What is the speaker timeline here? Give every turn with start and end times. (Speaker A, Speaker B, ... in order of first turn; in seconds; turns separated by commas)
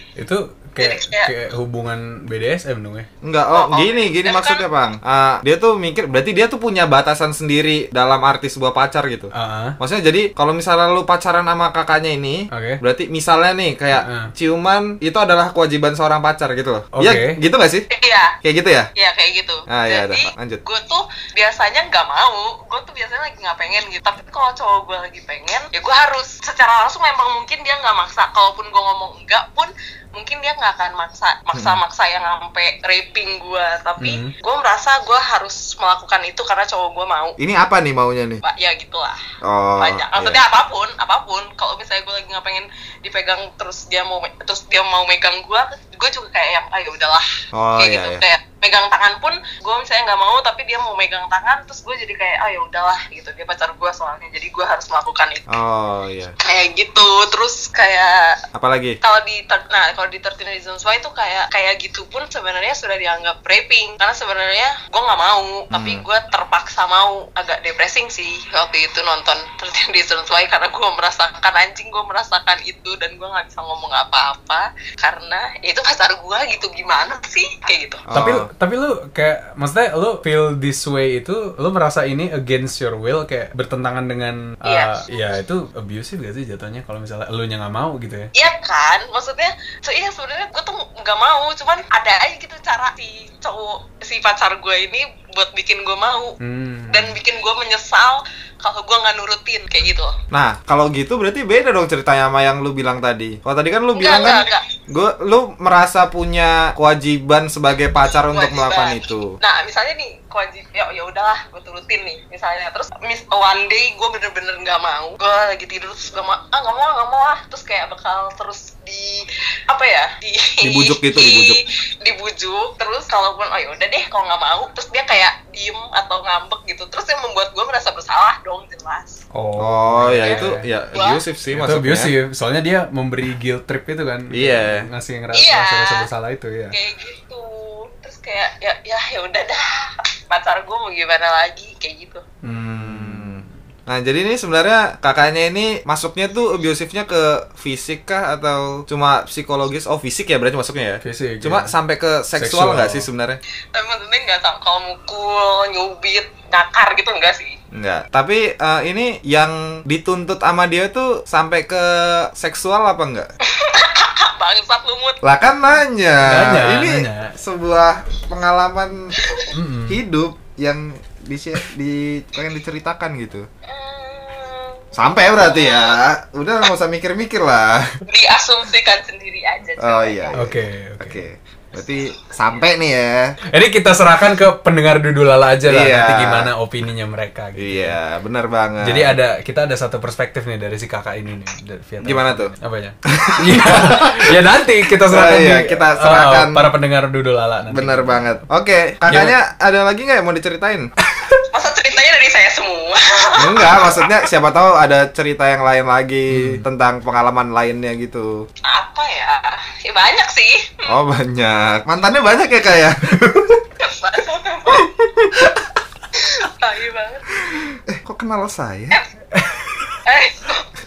Speaker A: 0.2-3.1, Speaker B: 0.8-1.3, Speaker C: 3.2-17.9, Speaker B: 3.5-4.7, Speaker A: 9.3-9.8, Speaker A: 12.5-12.8, Speaker A: 13.9-14.3, Speaker A: 16.9-17.4, Speaker B: 17.9-18.4, Speaker C: 18.4-18.9, Speaker B: 19.0-37.4, Speaker C: 19.7-20.6, Speaker C: 31.5-31.8, Speaker A: 34.0-34.3, Speaker C: 37.4-38.4, Speaker B: 38.4-39.2, Speaker C: 39.4-40.4, Speaker B: 39.8-55.5, Speaker C: 47.5-48.2, Speaker C: 55.5-56.3, Speaker B: 56.4-58.4, Speaker C: 58.5-59.0, Speaker B: 59.0-78.0, Speaker C: 65.7-66.0, Speaker C: 78.1-78.5, Speaker A: 78.1-88.3, Speaker B: 84.7-85.0, Speaker B: 88.3-96.4, Speaker A: 96.4-97.2, Speaker B: 96.9-100.2, Speaker C: 100.3-109.4, Speaker B: 104.0-104.7, Speaker B: 108.2-129.2, Speaker C: 120.6-121.6, Speaker A: 129.3-130.6, Speaker C: 129.6-132.1, Speaker B: 130.2-131.2, Speaker A: 131.5-136.8, Speaker C: 134.3-134.9, Speaker B: 135.3-136.1, Speaker B: 136.7-142.2, Speaker A: 142.4-143.5, Speaker C: 142.5-153.4, Speaker A: 151.0-151.7, Speaker A: 152.4-153.1, Speaker B: 153.7-157.6, Speaker C: 157.7-163.3, Speaker B: 163.4-165.2, Speaker C: 165.2-169.2, Speaker A: 166.2-167.4, Speaker B: 169.2-169.5, Speaker A: 169.5-170.0, Speaker C: 169.9-173.5, Speaker B: 173.7-176.1, Speaker C: 174.9-178.0, Speaker B: 178.1-180.4, Speaker C: 179.8-183.3, Speaker A: 180.3-181.2, Speaker A: 183.5-188.0, Speaker C: 185.7-186.5, Speaker C: 187.6-189.2, Speaker A: 188.8-198.4, Speaker C: 192.0-192.5, Speaker C: 193.1-196.7, Speaker C: 197.7-200.9, Speaker A: 199.1-199.3, Speaker B: 201.5-204.1, Speaker C: 203.4-208.3, Speaker A: 206.3-206.6, Speaker B: 208.7-211.0, Speaker C: 210.9-213.4, Speaker A: 213.1-213.6, Speaker B: 213.8-214.9, Speaker B: 216.1-217.7, Speaker C: 217.5-219.0, Speaker A: 219.3-220.0, Speaker B: 220.1-220.7